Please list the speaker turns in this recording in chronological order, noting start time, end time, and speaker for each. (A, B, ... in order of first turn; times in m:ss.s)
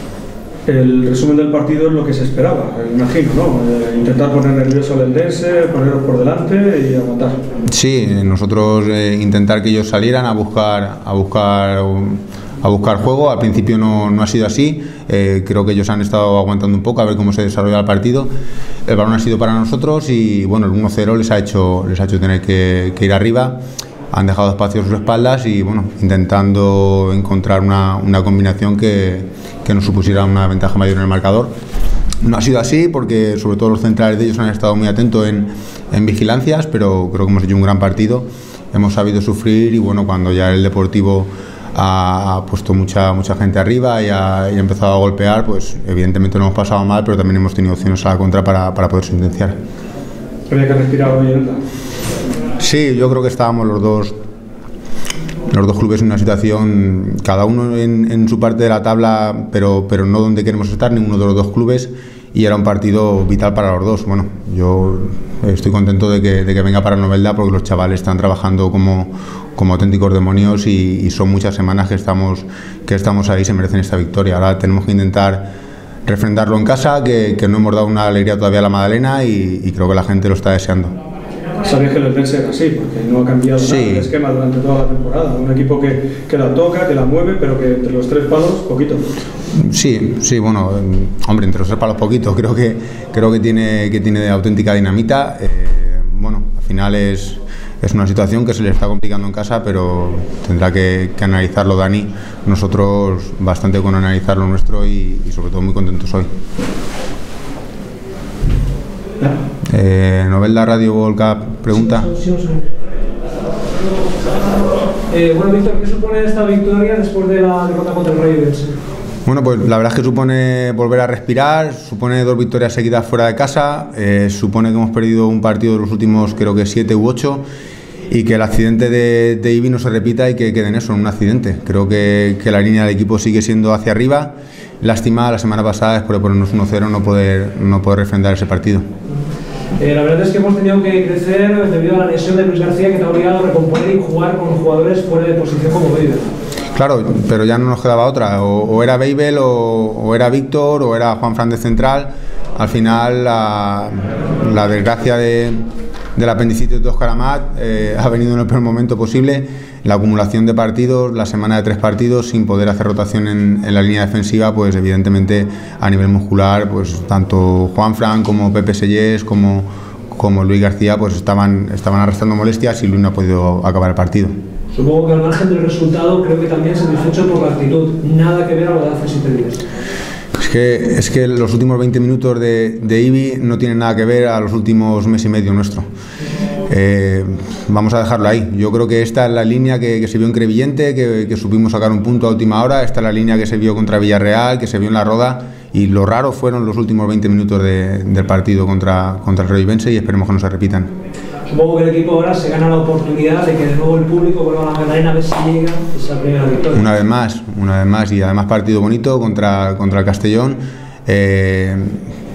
0:00.7-0:07.4 A
0:07.7-0:18.3 B
0:18.9-0:23.6 B
0:24.1-0:31.5 B
0:32.2-0:49.6 B
0:50.5-0:51.6 A
0:52.6-0:54.2 B
0:55.5-1:15.5 B
1:16.1-1:20.9 B
1:21.6-1:29.0 A
1:23.6-1:24.1 B
1:29.6-1:46.3 B
1:49.7-1:52.1 B
1:51.7-1:52.6 C
1:55.1-1:58.8 C
1:59.3-2:07.4 B
2:08.1-2:18.8 B
2:19.8-2:26.3 C
2:26.8-2:35.6 B
2:36.2-2:54.3 B
2:54.7-2:59.6 C
3:00.4-3:05.9 B
3:06.7-3:20.9 B
3:21.5-3:26.9 C
3:26.7-3:32.0 B